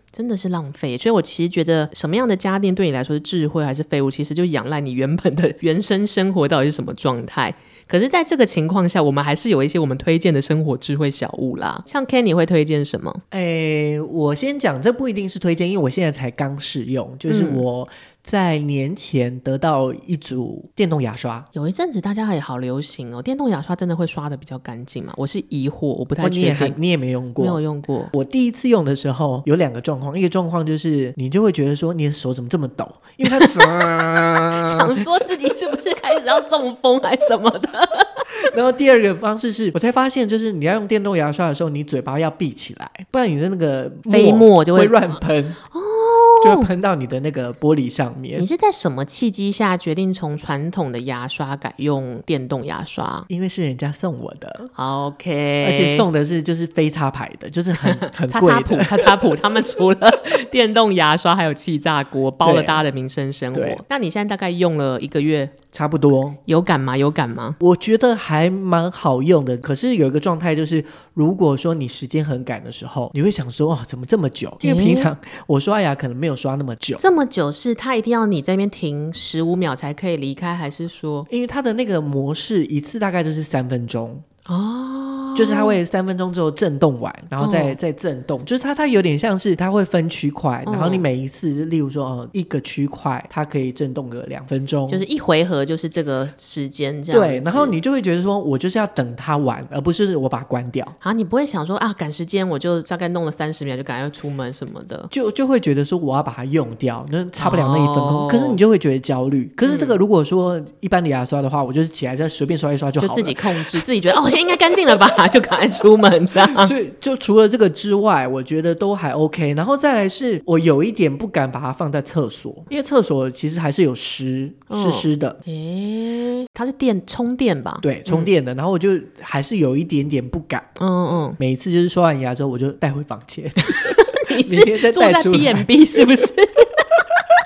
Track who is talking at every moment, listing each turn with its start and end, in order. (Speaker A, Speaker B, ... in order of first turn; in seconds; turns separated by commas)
Speaker A: 0.1-13.2, Speaker B: 13.3-21.4, Speaker A: 17.3-17.6, Speaker A: 21.5-26.8, Speaker B: 26.2-27.6, Speaker A: 27.4-28.1, Speaker B: 28.1-35.0, Speaker A: 33.2-38.4, Speaker B: 38.3-45.6, Speaker A: 44.1-45.1, Speaker A: 45.6-46.7, Speaker B: 46.4-48.5, Speaker A: 48.4-53.3, Speaker B: 53.3-54.7, Speaker A: 54.7-56.1, Speaker B: 55.6-59.2, Speaker A: 57.8-65.5, Speaker B: 62.4-62.8, Speaker B: 63.5-63.8, Speaker B: 65.7-66.4, Speaker A: 66.5-67.6, Speaker B: 67.6-77.0, Speaker A: 74.6-75.1, Speaker A: 77.0-81.3, Speaker B: 81.3-84.2, Speaker A: 84.5-85.8, Speaker B: 85.3-95.0, Speaker A: 87.4-87.8, Speaker A: 90.7-91.0, Speaker A: 94.9-97.8, Speaker B: 97.1-100.9, Speaker A: 101.0-105.1, Speaker B: 105.1-113.8, Speaker A: 107.4-108.6, Speaker A: 109.6-110.0, Speaker A: 113.0-116.7, Speaker B: 116.4-125.4, Speaker A: 124.7-128.3, Speaker B: 127.8-130.7, Speaker A: 130.8-131.4, Speaker B: 131.4-135.7, Speaker A: 133.6-137.0